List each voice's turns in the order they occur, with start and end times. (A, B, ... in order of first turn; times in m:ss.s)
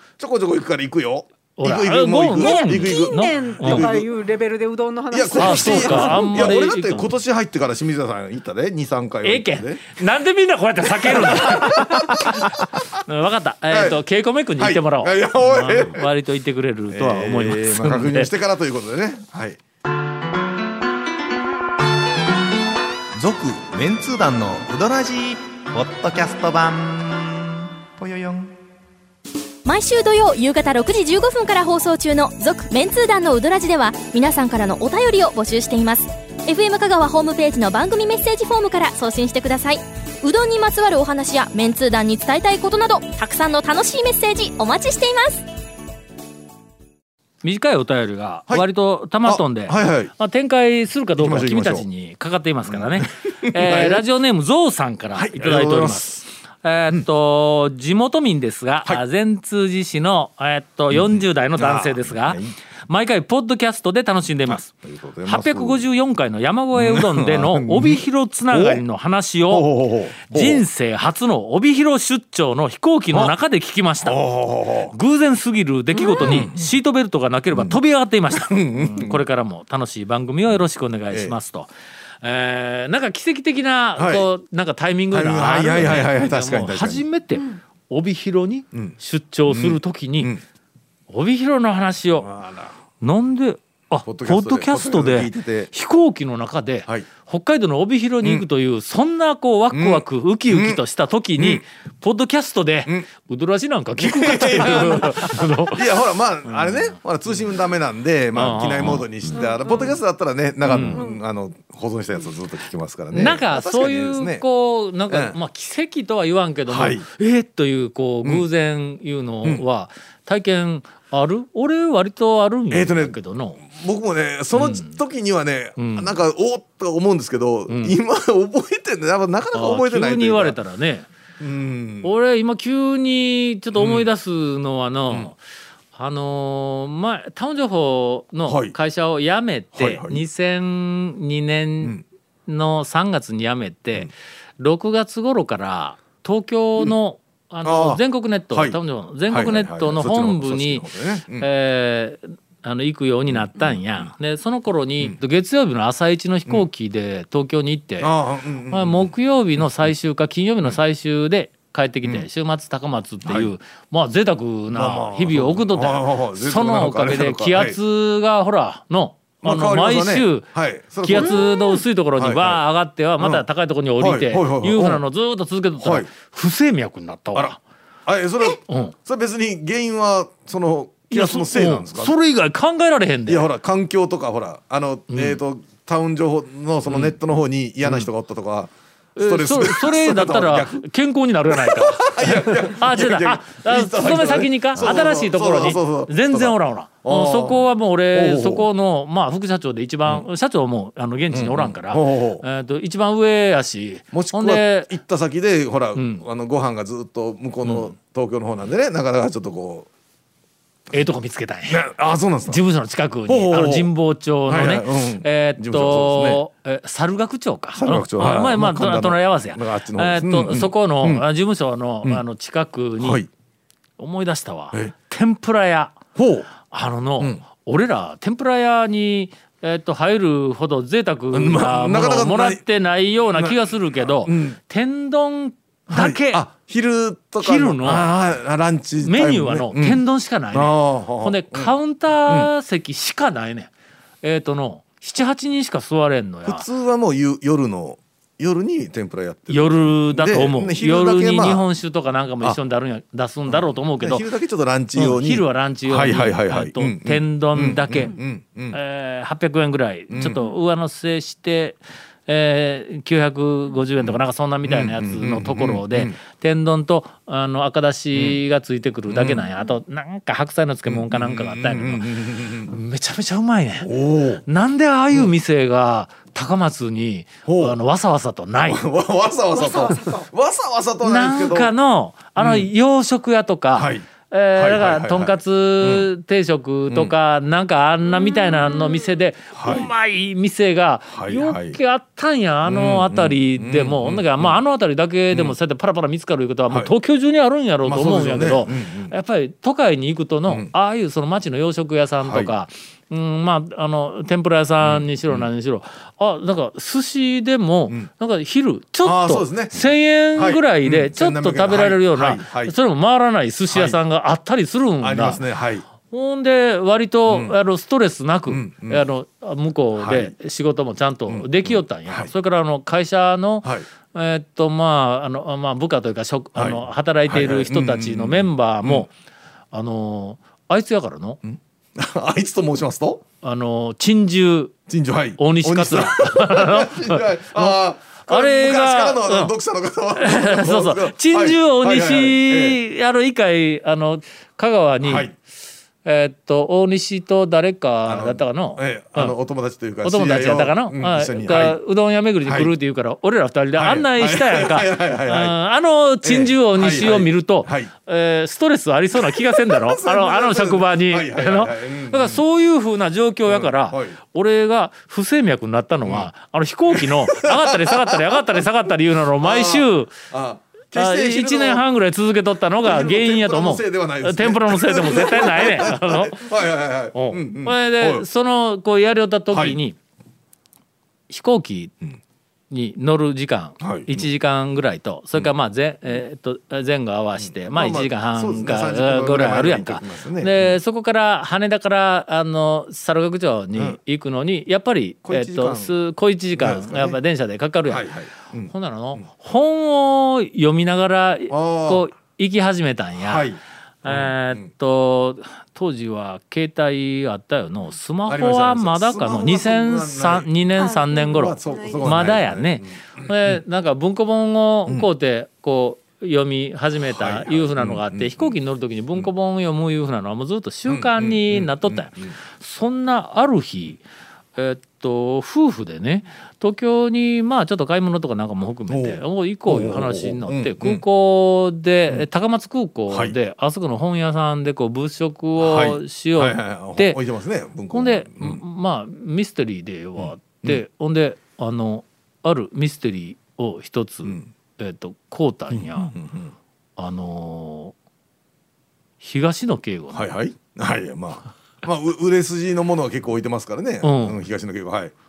0:00.2-0:04.1 A
0:01.6-0:03.9 B
0:02.4-0:06.6 C
0:05.1-0:10.0 A
0:05.4-0:07.1 B
0:09.2-0:18.3 B
0:10.8-0:13.0 A
0:13.7-0:14.0 A
0:14.6-0:16.1 A
0:16.9-0:19.6 A
0:23.2-0:28.6 D
0:29.6-0:45.5 E
0:47.4-1:04.7 B
0:49.2-0:50.1 A
0:51.2-0:51.8 A
0:52.7-0:54.0 A
0:55.2-0:56.2 A
1:00.9-1:02.5 A
1:04.5-1:05.8 A
1:05.2-1:09.7 B
1:06.8-1:08.8 A
1:09.5-1:10.6 A
1:10.2-1:14.2 B
1:14.0-1:14.9 A
1:14.9-1:21.7 B
1:16.1-1:16.7 A
1:17.5-1:17.8 A
1:18.4-1:19.2 A
1:22.2-1:30.3 B
1:24.0-1:24.3 A
1:25.1-1:27.0 A
1:29.5-1:30.4 A
1:31.1-1:32.3 B
1:32.2-1:32.8 A
1:33.0-1:45.9 B
1:34.1-1:35.7 A
1:39.7-1:40.8 A
1:44.0-1:54.4 A
1:46.5-1:46.8 B
1:48.4-1:49.1 B
1:49.3-1:50.0 C
1:50.7-1:51.0 B
1:50.9-1:51.2 C
1:53.1-2:03.6 B
1:55.1-1:55.4 A
1:56.7-1:57.0 A
2:02.7-2:10.6 A
2:04.5-2:05.0 B
2:05.8-2:06.1 B
2:07.7-2:08.0 B
2:09.5-2:11.1 B
2:11.4-2:12.1 A
2:12.0-2:15.4 B
2:13.7-2:14.1 A
2:15.9-2:30.8 B
2:18.5-2:18.8 A
2:19.8-2:20.2 A
2:27.6-2:28.8 A
2:29.3-2:31.5 A
2:31.4-2:38.1 B
2:33.3-2:34.1 A
2:38.0-2:39.1 A
2:38.7-2:50.5 B
2:43.2-2:43.5 A
2:44.7-2:47.8 A
2:49.4-2:52.6 A
2:51.0-2:57.6 B
2:53.2-2:53.4 A
2:54.0-2:55.0 A
2:55.8-2:56.1 A
2:57.4-3:02.2 A
2:58.7-2:58.9 B
3:01.1-3:03.5 B
3:03.3-3:10.8 A
3:05.1-3:05.4 B
3:06.9-3:07.2 B
3:09.2-3:24.9 B
3:11.5-3:18.7 A
3:21.3-3:22.4 A
3:24.1-3:29.9 A
3:26.0-3:26.2 B
3:27.6-3:27.9 B
3:30.9-3:31.8 B
3:31.7-3:32.6 A
3:32.5-3:43.2 B
3:33.3-3:33.9 A
3:34.5-3:36.4 A
3:37.8-3:41.2 A
3:43.0-3:43.3 A
3:44.0-3:46.0 B
3:46.2-3:46.5 A
3:46.6-3:56.4 B
3:51.3-3:52.6 A
3:53.3-3:54.6 A
3:55.9-4:01.7 A
3:57.4-3:58.0 B
3:59.0-4:03.7 B
4:04.2-4:06.7 B
4:06.4-4:11.6 A
4:09.5-4:14.2 B
4:13.5-4:18.8 A
4:15.0-4:18.2 B
4:18.7-4:33.9 B
4:20.1-4:20.4 A
4:24.0-4:26.2 A
4:28.1-4:28.4 A
4:29.1-4:29.5 A
4:30.9-4:32.8 A
4:33.8-4:34.4 A
4:34.4-4:38.8 B
4:37.5-4:37.8 A
4:38.6-4:41.7 A
4:39.6-4:40.3 C
4:41.0-5:15.4 B
4:42.4-4:42.7 A
4:43.8-4:46.1 A
4:48.3-4:48.8 C
4:49.6-4:49.9 A
4:51.1-4:51.8 A
4:52.6-4:54.6 A
4:55.3-4:55.6 A
4:57.8-4:59.1 A
5:02.2-5:02.5 A
5:04.8-5:05.5 A
5:09.0-5:09.8 A
5:10.3-5:12.8 A
5:13.7-5:14.0 A
5:15.0-5:15.8 A
5:16.1-5:29.1 B
5:17.3-5:17.5 A
5:18.5-5:19.1 A
5:20.0-5:20.3 A
5:21.3-5:22.3 A
5:26.6-5:29.1 A
5:29.7-5:31.4 B
5:31.4-5:33.2 A
5:33.4-5:34.7 B
5:34.9-5:42.8 A
5:35.4-5:39.5 B
5:40.2-5:45.3 B
5:45.0-5:45.3 A
5:46.0-5:49.4 B
5:48.1-5:51.8 A
5:50.0-6:10.2 B
5:52.4-5:52.7 A
5:53.8-5:55.6 A
5:56.2-5:57.9 A
5:59.2-6:02.4 A
6:03.5-6:04.2 A
6:06.9-6:08.6 A
6:09.4-6:11.8 A
6:11.0-6:16.4 B
6:12.8-6:18.2 A
6:17.1-6:20.0 B
6:19.5-6:19.8 A
6:21.3-6:22.0 B
6:22.7-6:38.1 B
6:23.8-6:24.3 A
6:27.4-6:30.8 A
6:35.2-6:35.9 A
6:36.5-6:37.2 A
6:37.9-6:39.2 A
6:38.7-6:43.5 B
6:41.5-6:42.0 A
6:43.2-6:44.7 A
6:44.0-7:04.0 B
6:48.3-6:50.6 A
6:50.8-6:52.2 C
6:51.1-6:53.6 A
6:57.0-6:58.6 A
7:00.9-7:02.4 A
7:04.6-7:17.2 B
7:08.9-7:11.0 A
7:15.6-7:18.6 A
7:17.9-7:26.1 B
7:20.2-7:20.8 A
7:25.7-7:26.5 A
7:27.0-7:27.9 B
7:29.2-7:30.2 B
7:30.1-7:35.1 A
7:34.0-7:34.4 B